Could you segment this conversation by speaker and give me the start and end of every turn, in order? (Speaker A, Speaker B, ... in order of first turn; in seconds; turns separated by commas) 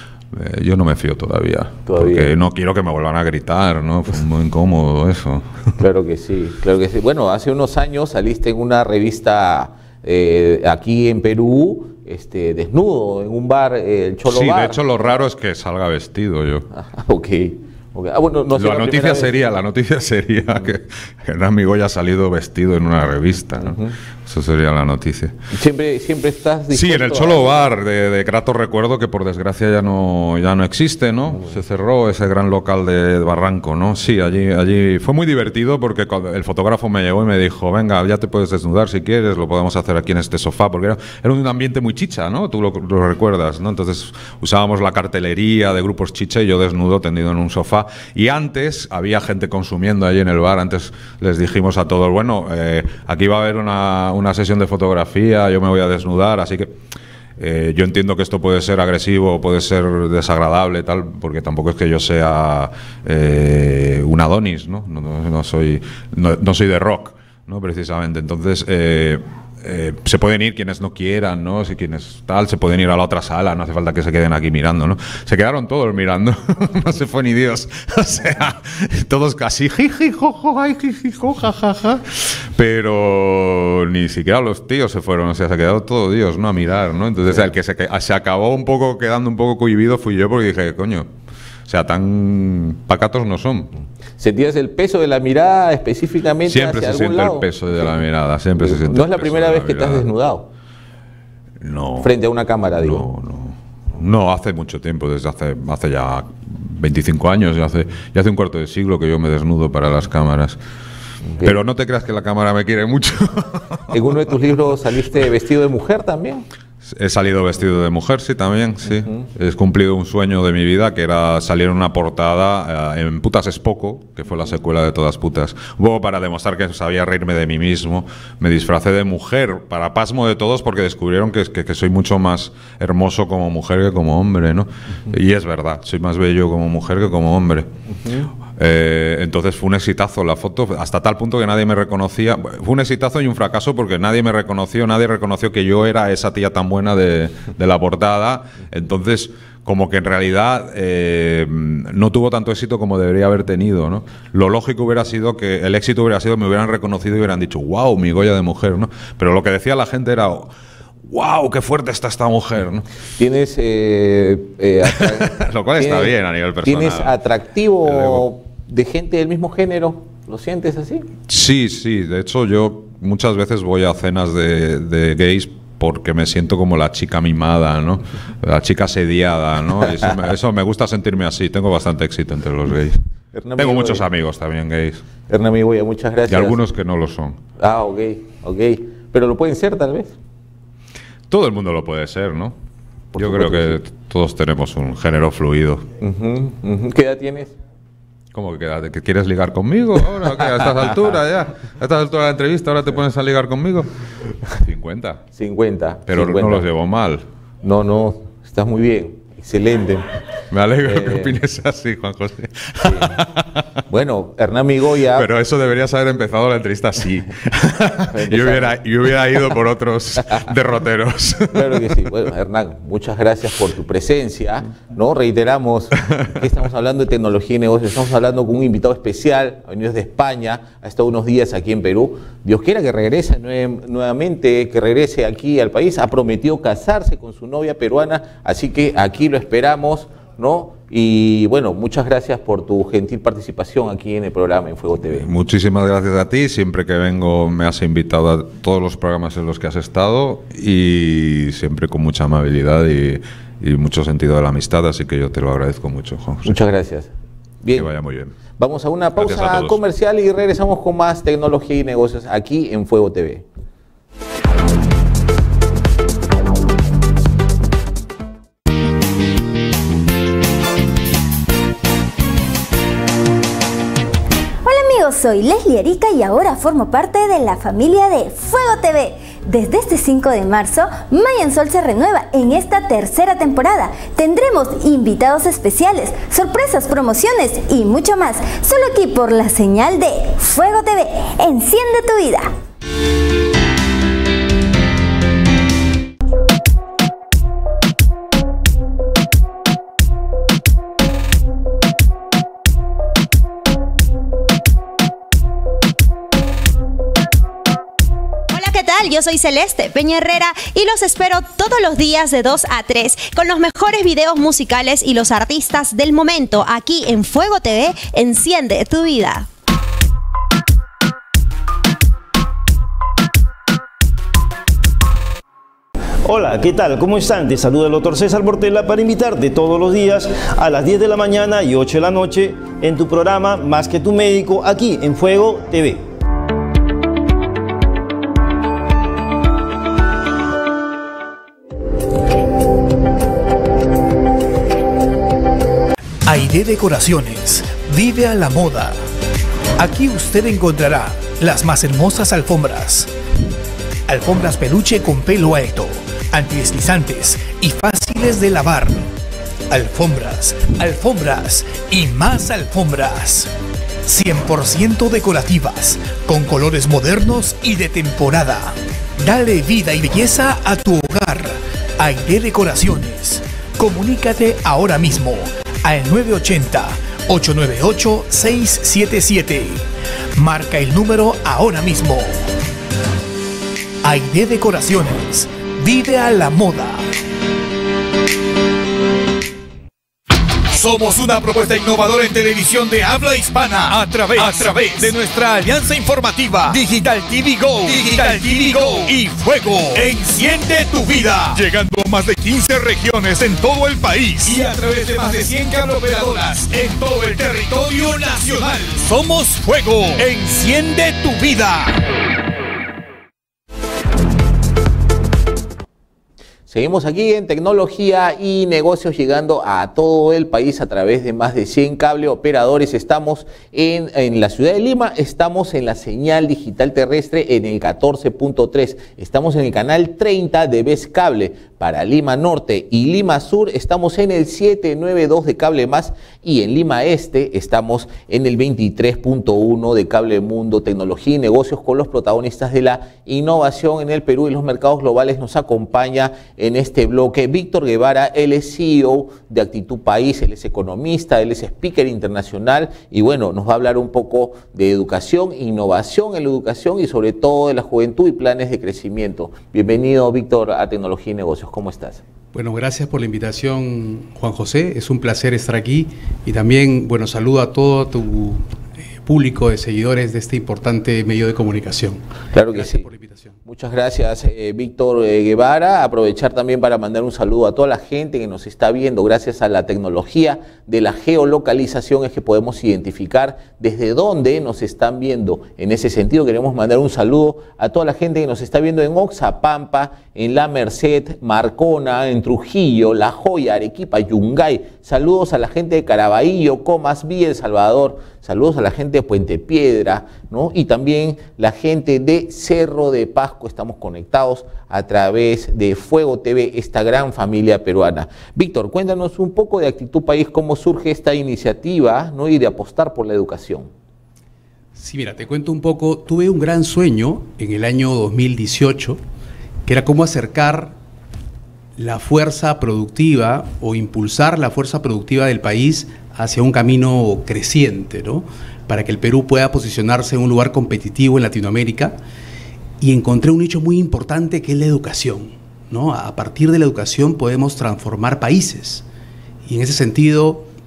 Speaker A: 0.3-5.6, Speaker B: 1.9-2.3, Speaker B: 5.8-14.8, Speaker A: 14.3-16.7, Speaker B: 16.7-19.4, Speaker A: 18.5-25.4, Speaker B: 23.6-23.9, Speaker B: 25.5-27.6, Speaker A: 26.7-56.8, Speaker A: 57.4-91.1, Speaker A: 91.7-93.7, Speaker B: 94.2-98.0, Speaker A: 96.5-100.1, Speaker B: 98.6-100.5, Speaker A: 101.6-102.1, Speaker B: 102.0-103.1, Speaker A: 102.8-110.6, Speaker A: 111.4-114.0, Speaker B: 113.9-116.5, Speaker A: 116.8-137.7, Speaker B: 137.9-138.3, Speaker A: 138.5-160.5, Speaker A: 161.1-162.9, Speaker B: 163.2-166.1, Speaker A: 164.9-167.2, Speaker B: 166.6-171.1, Speaker A: 167.8-168.2, Speaker A: 171.3-183.0, Speaker B: 183.3-184.1, Speaker A: 183.6-185.0, Speaker B: 185.3-186.6, Speaker A: 186.3-187.4, Speaker B: 187.6-190.2, Speaker A: 191.3-192.6, Speaker B: 193.1-193.8, Speaker A: 193.2-195.9, Speaker B: 196.0-197.5, Speaker A: 198.3-203.9, Speaker A: 204.5-205.2, Speaker B: 205.4-206.7, Speaker A: 206.1-207.2, Speaker B: 207.6-210.2, Speaker A: 210.5-213.7, Speaker B: 210.8-211.3, Speaker B: 212.8-213.2, Speaker B: 213.9-215.3, Speaker A: 215.1-221.9, Speaker B: 218.0-218.8, Speaker B: 221.5-245.3, Speaker A: 245.0-256.6, Speaker B: 256.4-257.1, Speaker B: 257.6-257.9, Speaker A: 257.7-258.4, Speaker B: 258.6-263.4, Speaker A: 259.2-259.8, Speaker C: 274.6-292.5, Speaker D: 308.5-319.5, Speaker E: 326.2-336.1, Speaker F: 346.3-349.0, Speaker F: 349.8-353.1, Speaker F: 354.1-359.1, Speaker F: 359.7-363.5, Speaker F: 364.1-379.8, Speaker F: 380.4-382.3, Speaker F: 384.0-387.1, Speaker G: 390.7-410.5, Speaker F: 393.8-395.1, Speaker F: 396.7-398.4, Speaker F: 399.8-400.2, Speaker F: 410.2-411.8, Speaker B: 416.7-462.2, Speaker H: 462.5-468.6, Speaker H: 469.2-473.6, Speaker B: 472.5-473.1, Speaker B: 473.7-513.9, Speaker H: 515.0-519.2, Speaker H: 519.9-520.9, Speaker H: 522.0-532.2, Speaker H: 533.0-539.0, Speaker H: 539.7-540.7